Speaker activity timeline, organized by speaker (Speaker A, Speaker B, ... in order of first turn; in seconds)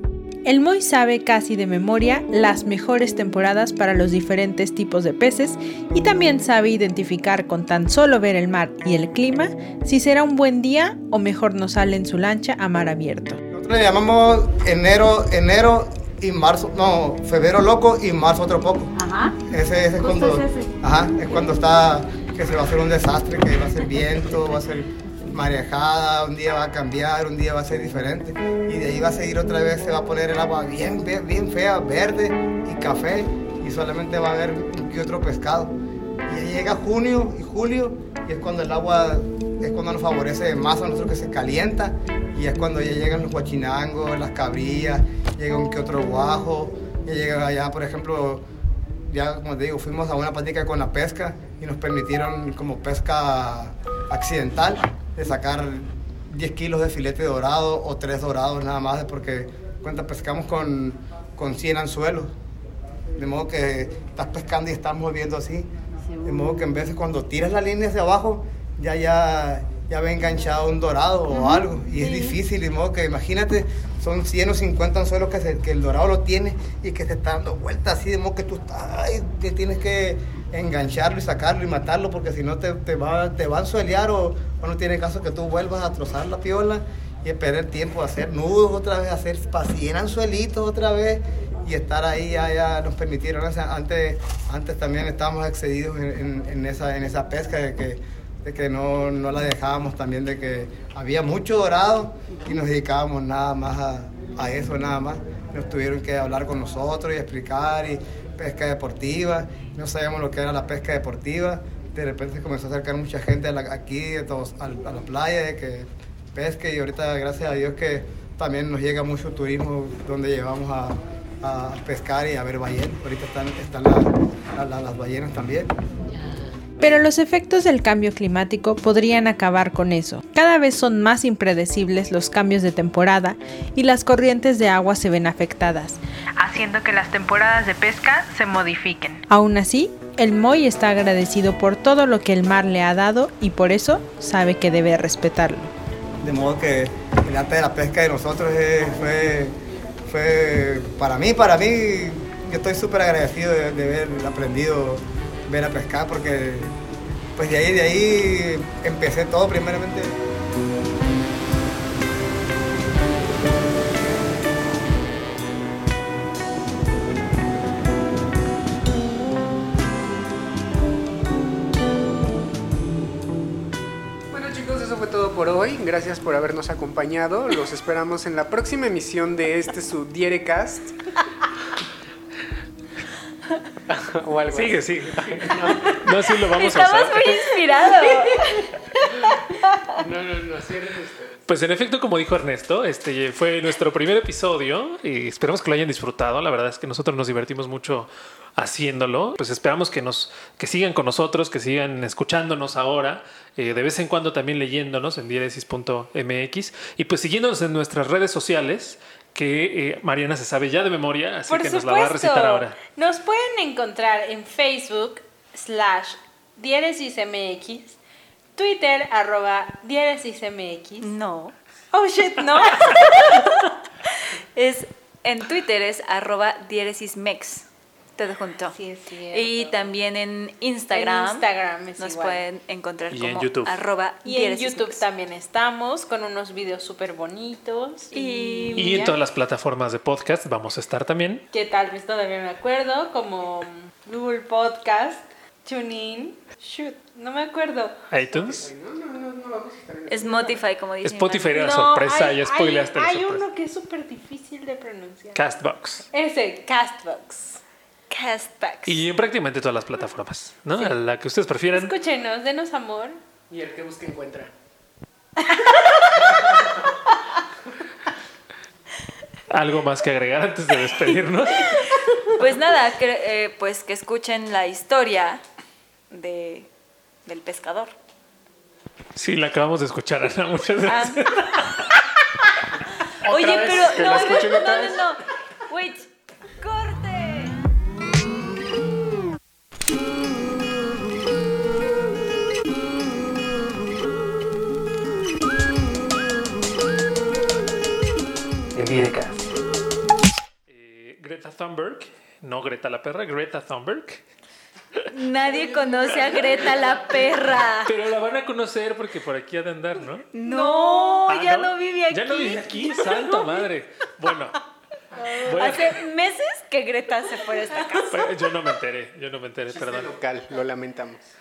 Speaker A: 0.4-13.4, 126.8-145.7, 211.5-218.0, 218.5-221.1, 221.9-223.4, 228.7-229.8, 230.9-232.4, 234.2-239.1, 241.5-247.9, 251.5-255.4, 256.1-257.6, 261.7-263.2, 305.7-306.2, 310.5-311.2
Speaker B: 13.5-18.9, 19.5-35.7, 36.2-48.4, 49.1-62.3, 63.1-65.7, 66.2-125.7, 146.2-149.5, 150.1-156.7, 157.3-160.2
Speaker C: 18.9-19.4, 20.0-20.7, 66.1-66.6, 71.3-72.4
Speaker D: 174.3-180.9, 183.9-186.0, 189.9-191.4, 248.3-250.6, 263.5-264.5, 266.4-266.7, 283.3-285.0, 319.7-321.2
Speaker E: 184.5-187.5, 191.5-212.8, 233.1-233.8, 238.8-241.4, 248.1-248.7, 251.0-253.4, 255.3-256.1, 258.9-261.9, 269.5-271.9, 279.1-281.8, 283.2-284.5, 298.7-299.4, 300.7-304.2, 307.8-310.3, 311.2-314.6, 315.4-316.0, 318.1-320.1
Speaker F: 186.5-188.8, 221.0-221.5, 224.3-228.8, 229.3-231.5, 232.0-235.0, 238.1-239.1, 250.1-251.7, 258.1-259.0, 265.6-266.1, 271.9-275.4, 276.1-276.7, 277.2-277.9, 280.9-281.8, 283.2-287.6, 305.1-307.9, 310.3-313.4, 315.4-318.2